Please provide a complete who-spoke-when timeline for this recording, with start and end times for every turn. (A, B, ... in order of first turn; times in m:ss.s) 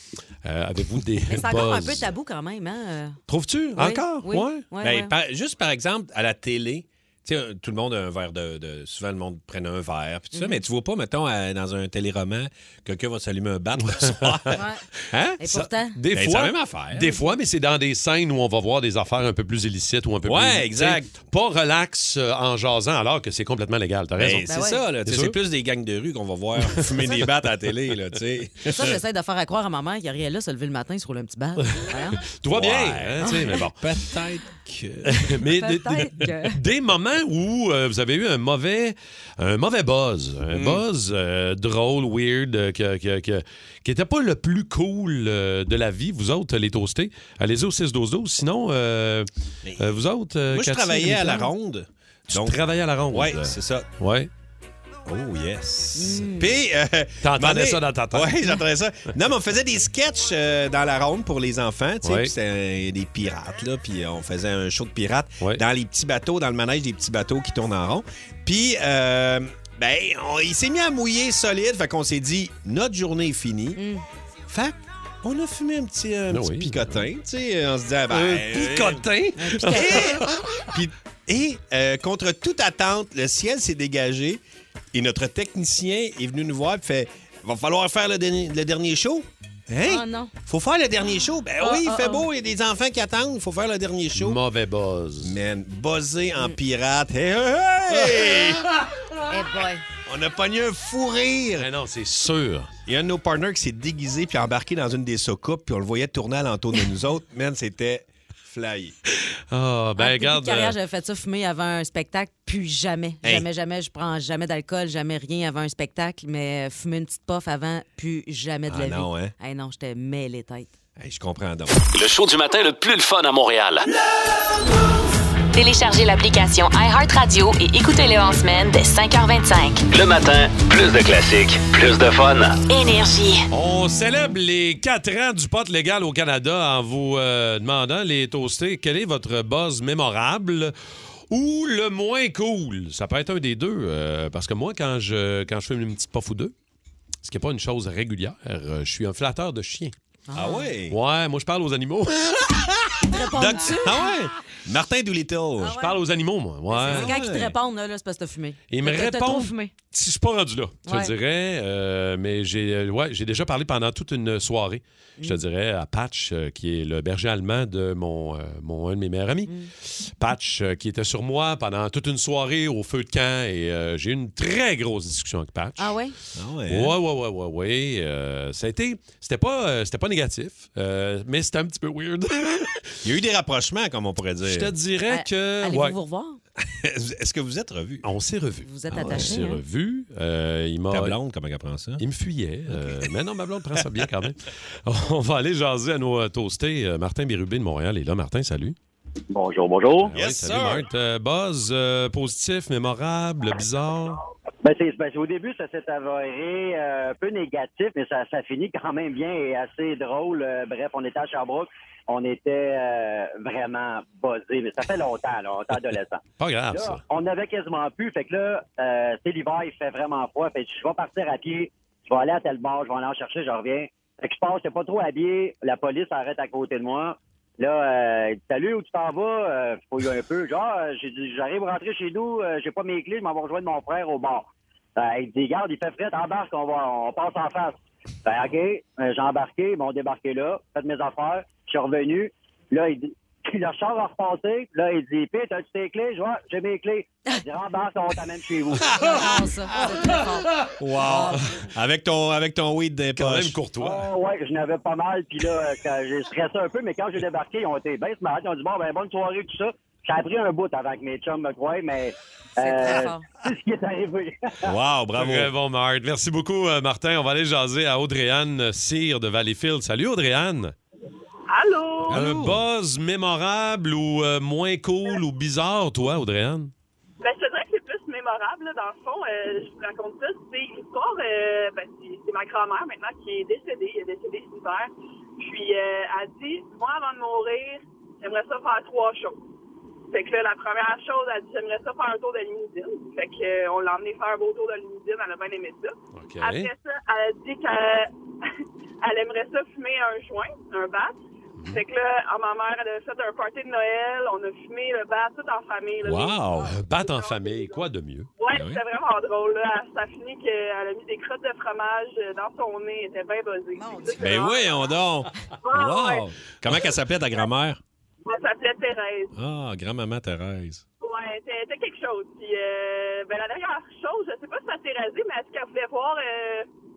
0:00.4-0:02.1 A
0:01.3-0:03.2 B
0:03.3-0:04.6 A
0:03.8-0:05.1 B
0:03.8-0:15.4 C
0:10.3-0:10.6 B
0:13.8-0:14.6 A
0:14.5-0:14.8 B
0:15.4-0:16.0 B
0:15.5-0:24.5 A
0:16.1-0:17.1 C
0:20.2-0:21.2 C
0:24.2-0:29.0 C
0:24.5-0:24.8 B
0:25.0-0:25.4 A
0:26.6-0:27.2 A
0:28.7-0:32.2 B
0:31.7-0:33.8 A
0:32.5-0:35.2 C
0:33.2-0:33.6 B
0:35.1-0:51.5 A
0:35.4-0:36.6 B
0:40.5-0:40.8 C
0:49.6-0:49.9 C
0:50.5-0:53.9 C
0:52.3-0:54.3 A
0:55.0-1:13.8 C
0:55.9-0:56.5 B
0:57.2-0:58.6 A
1:02.0-1:02.3 A
1:13.7-1:14.0 B
1:14.5-1:24.4 C
1:16.3-1:17.0 A
1:18.1-1:20.7 A
1:19.4-1:20.2 B
1:24.9-1:34.4 C
1:29.8-1:30.3 B
1:31.6-1:32.2 B
1:34.1-1:35.4 A
1:35.2-1:38.7 C
1:39.3-1:39.8 B
1:40.0-1:41.7 C
1:41.6-1:42.7 A
1:42.8-1:48.9 C
1:49.5-1:50.8 A
1:50.0-2:00.7 B
1:58.7-1:59.3 C
2:01.0-2:01.8 C
2:01.9-2:03.8 D
2:05.5-2:09.8 E
2:09.9-2:12.6 D
2:12.7-2:13.4 E
2:13.5-2:20.7 A
2:21.3-2:26.5 A
2:27.2-2:29.9 A
2:30.3-2:30.7 B
2:30.3-2:31.0 C
2:30.9-2:32.7 A
2:32.5-2:35.8 C
2:33.1-2:34.1 B
2:35.6-2:36.0 B
2:35.8-2:37.1 A
2:36.7-2:39.7 B
2:36.8-2:37.6 C
2:38.7-2:56.0 A
2:40.8-2:41.1 B
2:55.8-2:56.2 B
2:56.3-2:57.0 C
2:56.7-3:03.0 A
3:03.0-3:04.7 C
3:04.4-3:06.0 A
3:05.1-3:06.4 B
3:06.6-3:08.1 C
3:08.0-3:11.2 A
3:08.6-3:09.6 B
3:08.9-3:09.4 C
3:10.9-3:12.0 C
3:12.0-3:18.8 A
3:12.7-3:13.1 C
3:13.8-3:14.0 C
3:19.3-3:20.1 F
3:20.0-3:24.2 A
3:20.1-3:20.9 C
3:24.6-4:08.9 F
3:36.4-3:37.0 A
4:08.8-4:09.4 C
4:08.9-4:11.4 B
4:10.8-4:13.6 C
4:11.3-4:11.6 A
4:13.2-4:14.1 A
4:13.8-4:24.6 F
4:22.6-4:23.2 B
4:24.6-4:25.5 C
4:25.2-4:30.7 A
4:31.5-4:32.2 G
4:32.0-4:32.6 C
4:32.1-4:36.7 A
4:37.2-4:49.4 G
4:50.1-4:58.1 G
4:56.1-4:56.7 A
4:59.0-5:01.2 G
5:01.6-5:01.8 A
5:01.7-5:07.8 G
5:06.0-5:06.8 C
5:06.6-5:08.3 A
5:08.4-5:15.0 G
5:08.5-5:08.8 C
5:13.8-5:14.3 B
5:14.2-5:17.8 C
5:15.6-5:16.2 G
5:18.2-5:19.3 G
5:19.3-5:20.8 C
5:21.0-5:26.7 G